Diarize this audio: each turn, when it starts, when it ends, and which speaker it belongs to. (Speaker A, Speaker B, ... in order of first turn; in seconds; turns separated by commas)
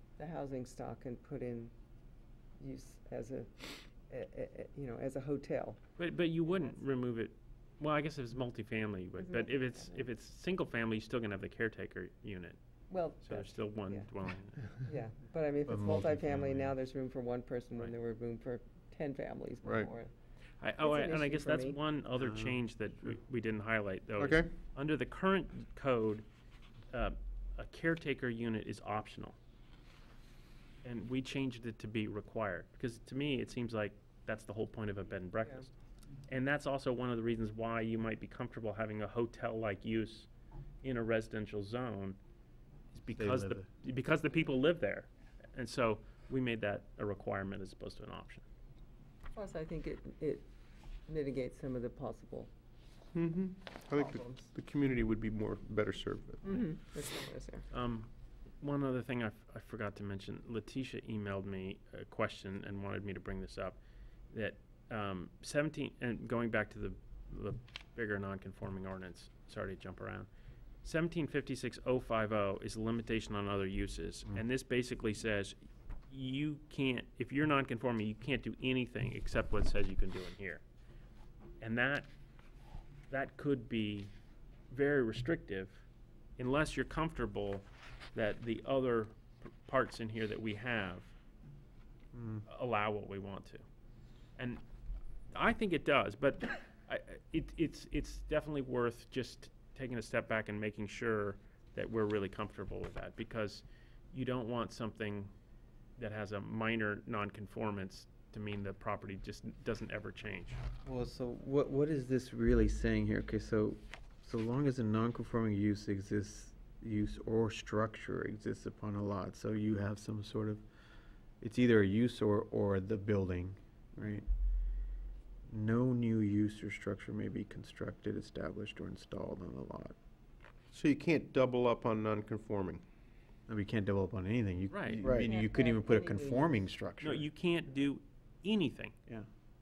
Speaker A: 0.2-1.7, Speaker A: 2.6-5.8, Speaker B: 6.0-12.6, Speaker A: 6.4-6.8, Speaker A: 9.2-10.1, Speaker A: 12.9-14.1, Speaker B: 13.2-14.6, Speaker A: 14.8-20.1, Speaker C: 15.7-16.7, Speaker D: 19.6-19.9, Speaker B: 20.6-26.2, Speaker A: 20.8-21.8, Speaker C: 22.2-22.6, Speaker D: 24.2-24.5, Speaker B: 26.9-29.4, Speaker B: 30.8-35.7, Speaker B: 36.3-40.3, Speaker B: 40.8-42.2, Speaker B: 42.9-48.4, Speaker C: 43.1-43.7, Speaker A: 49.3-50.5, Speaker A: 51.1-52.5, Speaker D: 53.1-56.6, Speaker A: 54.0-54.5, Speaker A: 56.4-57.7, Speaker B: 57.7-63.8, Speaker B: 64.3-70.3, Speaker B: 70.8-75.6, Speaker B: 76.1-80.6, Speaker B: 81.6-82.1, Speaker B: 83.1-84.1, Speaker B: 84.7-85.8, Speaker B: 86.4-91.1, Speaker C: 92.1-92.4, Speaker B: 92.5-93.6, Speaker B: 94.4-94.6, Speaker B: 95.3-105.3, Speaker B: 106.0-110.6, Speaker C: 110.8-120.6, Speaker C: 121.4-124.3, Speaker C: 125.5-129.9, Speaker D: 130.7-132.8, Speaker C: 133.5-137.3, Speaker B: 134.7-135.0, Speaker D: 135.0-135.3, Speaker A: 135.2-136.6, Speaker B: 137.0-138.9